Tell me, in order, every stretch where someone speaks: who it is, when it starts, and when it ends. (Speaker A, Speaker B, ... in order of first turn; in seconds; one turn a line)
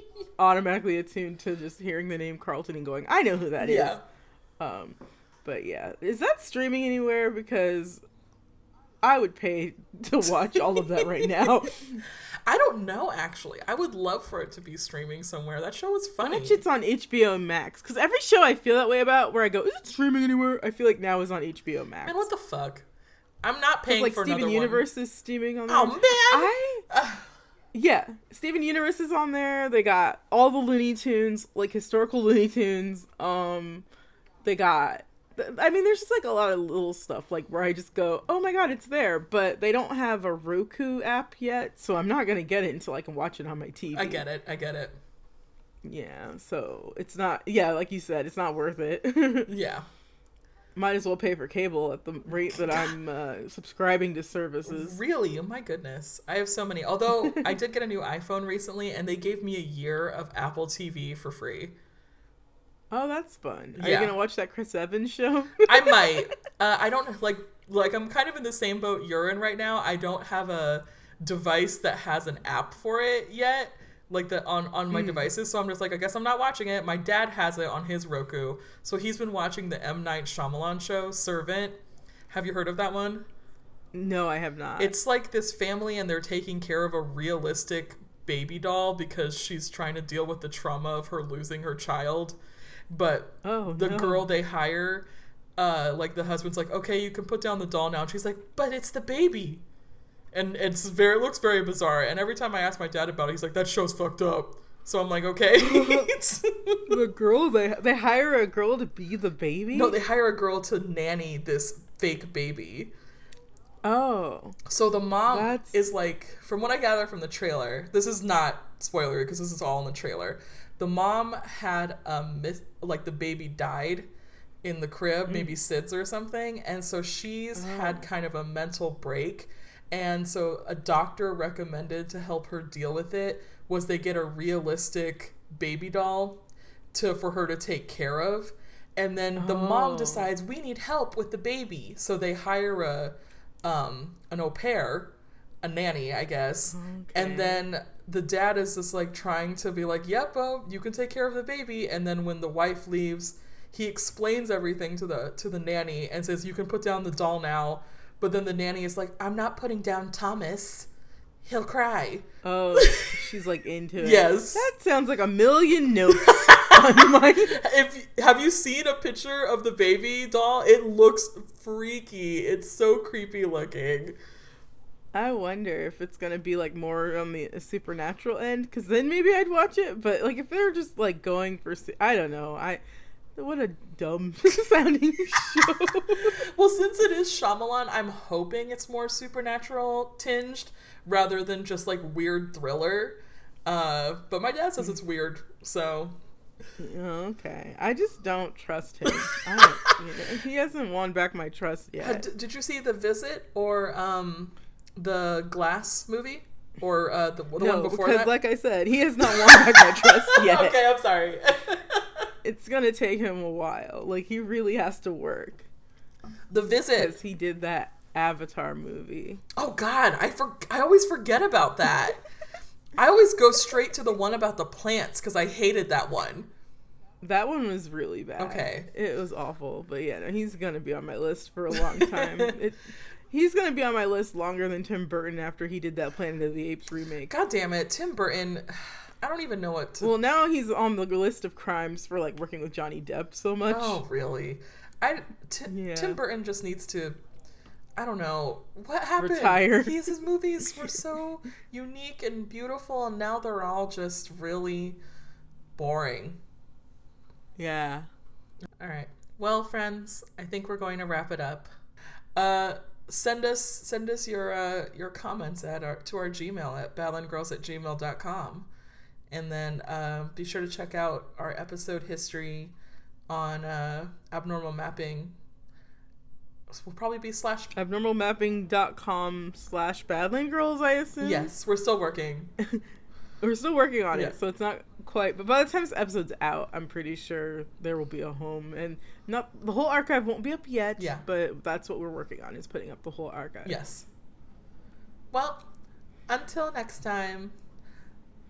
Speaker A: 0.4-4.0
Speaker B: 3.6-4.0
Speaker A: 4.6-8.0
Speaker A: 9.0-12.0
Speaker B: 10.6-11.3
Speaker B: 12.5-16.6
Speaker A: 16.2-22.3
Speaker B: 22.1-22.9
Speaker B: 23.4-24.9
Speaker A: 23.9-26.9
Speaker B: 25.7-27.3
Speaker A: 27.7-33.9
Speaker A: 34.4-44.2
Speaker B: 43.9-45.0
Speaker A: 45.8-49.5
Speaker B: 49.5-49.9
Speaker A: 50.8-55.0
Speaker B: 52.5-52.9
Speaker B: 54.7-61.8
Speaker A: 62.9-66.3
Speaker B: 63.8-64.1
Speaker B: 65.6-83.3
Speaker A: 74.9-75.2
Speaker A: 83.9-84.9
Speaker B: 84.8-92.4
Speaker B: 92.9-99.6
Speaker A: 93.4-94.2
Speaker B: 100.3-107.0
Speaker A: 105.6-106.1
Speaker A: 106.9-110.0
Speaker B: 109.7-112.9
Speaker A: 113.8-114.6
Speaker B: 114.7-124.1
Speaker A: 115.3-115.7
Speaker B: 124.6-160.9
Speaker A: 127.6-128.1
Speaker A: 139.4-140.3
Speaker A: 146.7-147.6
Speaker B: 161.4-163.2
Speaker A: 162.4-167.6
Speaker B: 164.0-164.7
Speaker B: 166.2-174.2
Speaker A: 175.1-182.8
Speaker A: 183.4-186.3
Speaker B: 186.2-196.2
Speaker A: 196.8-202.2
Speaker B: 202.0-208.3
Speaker A: 207.6-210.8
Speaker B: 209.2-212.3
Speaker A: 212.4-215.7
Speaker B: 216.5-217.1
Speaker A: 217.0-219.4
Speaker B: 219.6-222.2
Speaker B: 223.0-226.5
Speaker A: 227.2-237.3
Speaker B: 228.4-228.9
Speaker B: 231.7-232.5
Speaker B: 237.3-240.1
Speaker A: 240.0-244.0
Speaker B: 243.7-247.2
Speaker A: 245.7-246.2
Speaker B: 248.0-255.0
Speaker A: 249.2-250.0
Speaker B: 255.8-256.4
Speaker A: 257.6-258.1
Speaker B: 258.8-261.7
Speaker B: 262.4-268.7
Speaker B: 269.3-272.8
Speaker B: 273.3-275.4
Speaker B: 276.7-277.8
Speaker A: 277.8-281.5
Speaker B: 281.2-282.5
Speaker A: 283.4-293.8
Speaker B: 291.0-291.2
Speaker B: 293.6-294.1
Speaker B: 295.3-295.7
Speaker B: 296.3-297.6